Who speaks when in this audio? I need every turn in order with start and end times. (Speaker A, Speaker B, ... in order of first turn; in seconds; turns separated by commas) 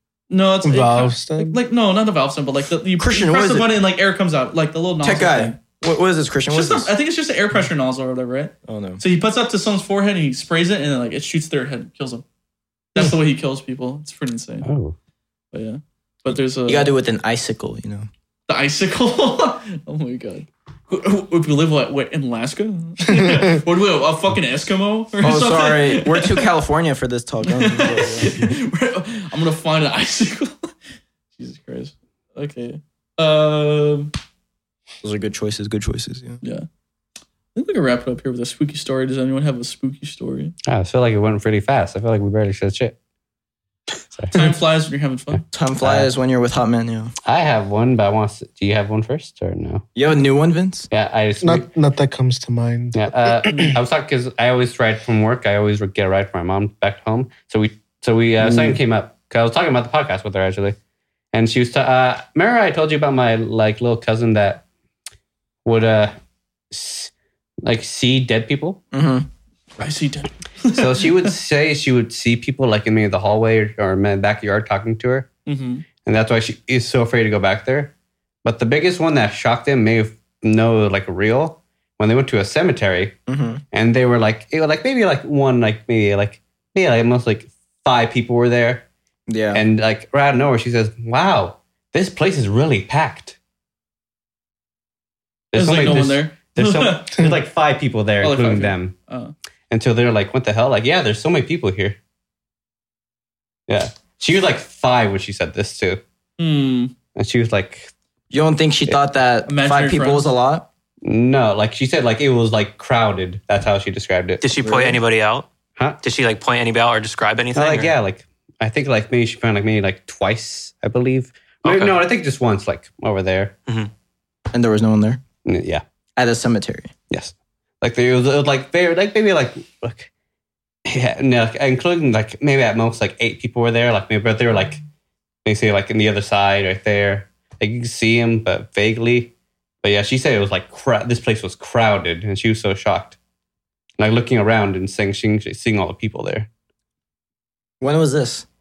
Speaker A: 0.3-5.6, Speaker B: 0.6-1.6, Speaker C: 3.0-3.7, Speaker C: 5.0-6.9, Speaker A: 6.5-12.2, Speaker C: 8.7-9.0, Speaker A: 12.9-14.7, Speaker D: 14.6-14.9, Speaker A: 15.5-16.9, Speaker C: 16.6-18.1, Speaker A: 18.5-26.5, Speaker B: 23.1-23.4, Speaker C: 25.2-28.5, Speaker A: 27.4-30.7, Speaker A: 31.4-34.1, Speaker C: 35.0-36.4, Speaker A: 37.5-40.5, Speaker D: 40.6-43.0, Speaker D: 44.1-44.4, Speaker A: 44.3-45.4, Speaker D: 45.3-46.1, Speaker C: 45.5-47.1, Speaker D: 47.2-49.9, Speaker C: 49.9-50.9, Speaker D: 50.9-51.7, Speaker B: 51.4-53.7, Speaker D: 52.9-60.8, Speaker D: 61.3-64.6, Speaker D: 65.6-66.1, Speaker D: 66.7-67.1, Speaker D: 67.6-68.8, Speaker C: 68.9-69.3, Speaker A: 69.8-71.3, Speaker D: 70.7-75.3, Speaker A: 75.5-75.8, Speaker D: 76.0-77.9, Speaker D: 78.4-83.2, Speaker C: 83.3-83.6, Speaker D: 83.7-88.8, Speaker C: 89.3-89.6, Speaker D: 89.5-93.3, Speaker D: 95.5-98.9, Speaker A: 95.5-97.1, Speaker A: 98.2-99.3, Speaker D: 99.7-102.0, Speaker D: 103.7-106.0, Speaker A: 106.4-106.9, Speaker D: 107.1-107.9, Speaker C: 108.3-110.7, Speaker A: 109.5-110.3, Speaker D: 111.0-114.4, Speaker E: 114.4-115.5, Speaker C: 114.6-115.0, Speaker E: 116.0-117.9, Speaker D: 117.5-123.5, Speaker E: 121.6-122.0, Speaker C: 124.5-125.2, Speaker D: 125.4-125.8, Speaker C: 126.2-126.9, Speaker D: 127.1-130.1, Speaker D: 130.8-134.8, Speaker D: 135.4-143.2, Speaker D: 144.0-146.5, Speaker C: 147.8-148.4